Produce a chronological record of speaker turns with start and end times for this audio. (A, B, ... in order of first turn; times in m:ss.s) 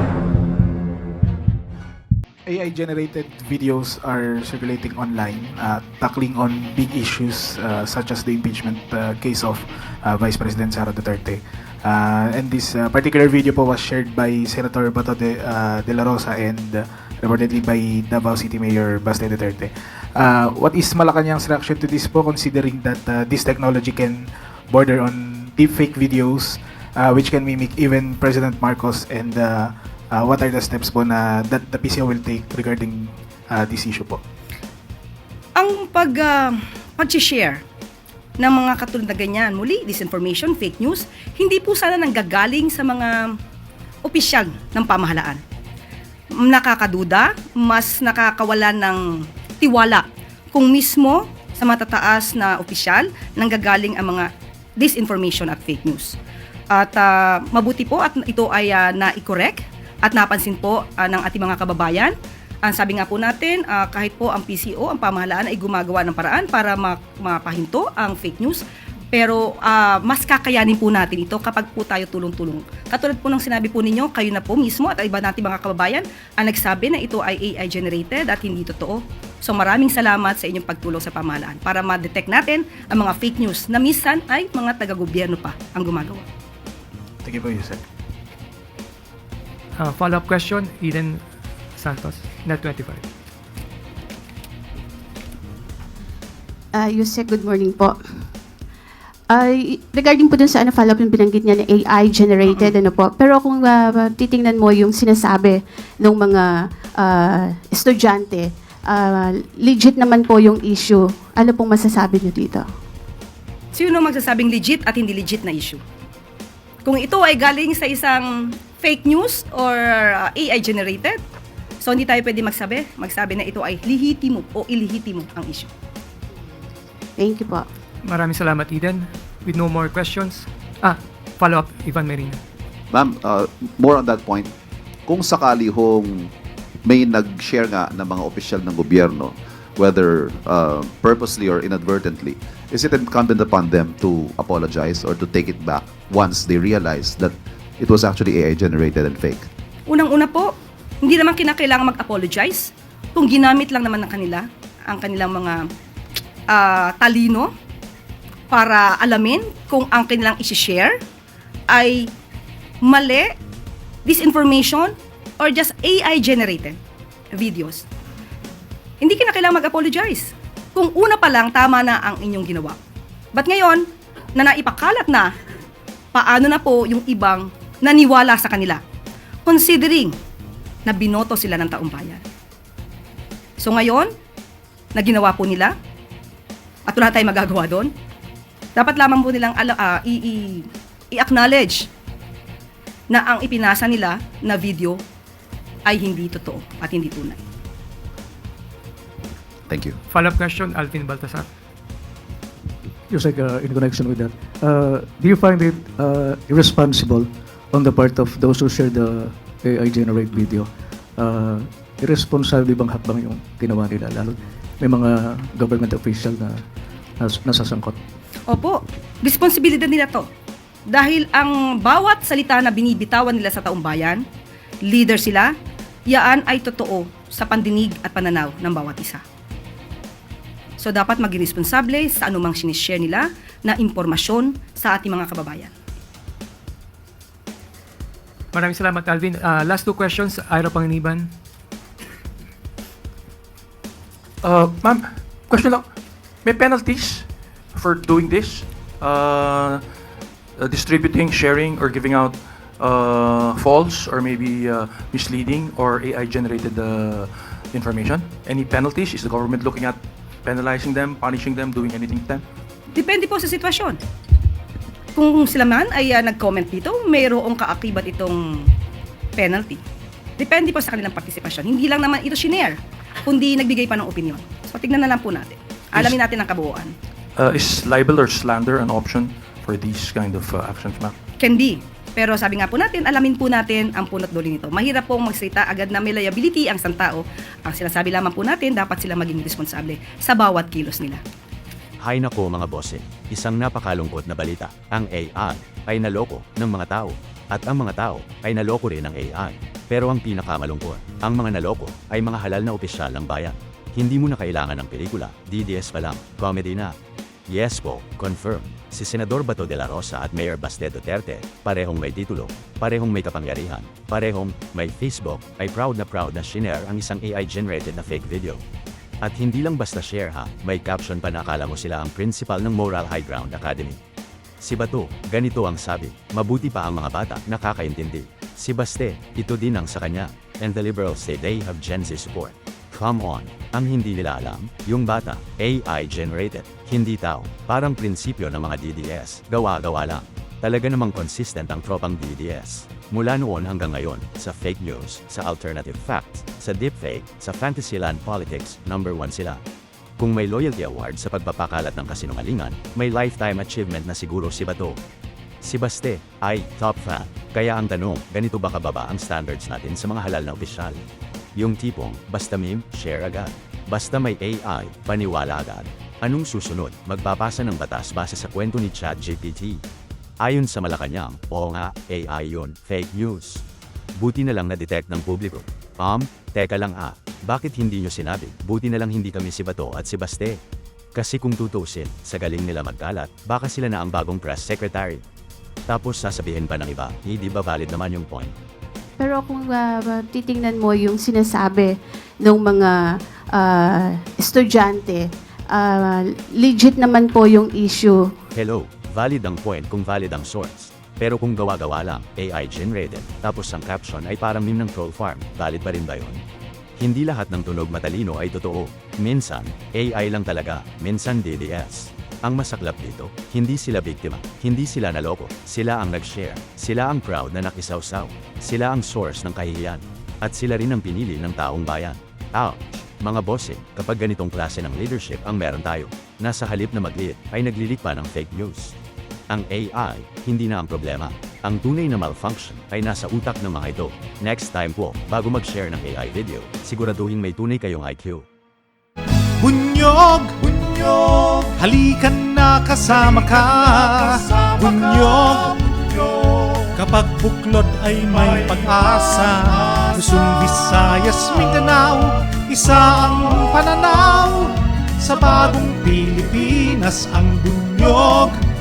0:02.5-0:34.2 A
0:35.6-0:37.6 B
0:38.4-0:43.4 B
0:44.1-0:45.4 B
0:46.4-0:56.2 B
0:56.7-1:02.1 B
1:02.6-1:26.3 B
1:27.2-1:27.8 A
1:29.8-1:31.2 C
1:31.8-1:33.0 C
1:36.7-1:38.0 D
1:39.3-1:52.6 D
1:53.8-1:55.8 B
1:56.8-2:01.2 B
2:01.8-2:05.7 B
2:07.2-2:07.7 D
2:08.0-2:12.4 C
2:12.9-2:14.5 E
2:15.1-2:16.3 E
2:16.8-2:29.5 E
2:29.9-2:35.6 B
2:36.5-2:37.5 B
2:38.5-2:40.9 B
2:41.7-2:42.1 B
2:42.8-2:43.4 B
2:44.0-2:46.8 B
2:47.4-2:47.8 B
2:49.0-2:52.8 B
2:53.3-2:55.3 B
2:56.2-2:58.8 B
2:59.5-3:00.1 B
3:00.9-3:02.2 B
3:03.6-3:04.1 B
3:05.0-3:05.7 B
3:06.9-3:07.9 B
3:08.8-3:11.8 B
3:13.1-3:15.0 B
3:15.9-3:17.4 B
3:19.7-3:20.0 E
3:20.1-3:21.5 C
3:23.1-3:36.6 F
3:37.2-3:38.0 F
3:38.5-3:40.3 B
3:40.9-3:44.2 B
3:44.9-3:45.5 B
3:46.1-3:49.2 B
3:50.8-3:55.7 B
3:58.5-4:01.3 C
4:04.4-4:10.0 G
4:10.6-4:22.4 G
4:23.0-4:24.0 B
4:25.2-4:28.7 B
4:29.4-4:29.8 B
4:30.4-4:36.9 B
4:37.4-4:41.2 G
4:41.4-4:51.2 B
4:52.0-5:06.9 H
5:07.5-5:18.6 H
5:19.2-5:24.0 H
5:24.6-5:49.6 H
5:50.2-5:55.0 H
5:55.6-6:01.0 H
6:01.6-6:09.8 H
6:10.4-6:13.6 H
6:14.2-6:20.6 H
6:21.2-6:25.2 H
6:25.9-6:28.5 H
6:29.2-6:38.3 D
6:38.5-6:46.4 H
6:47.0-7:09.0 H
7:09.5-7:18.5 H
7:19.6-7:38.6 I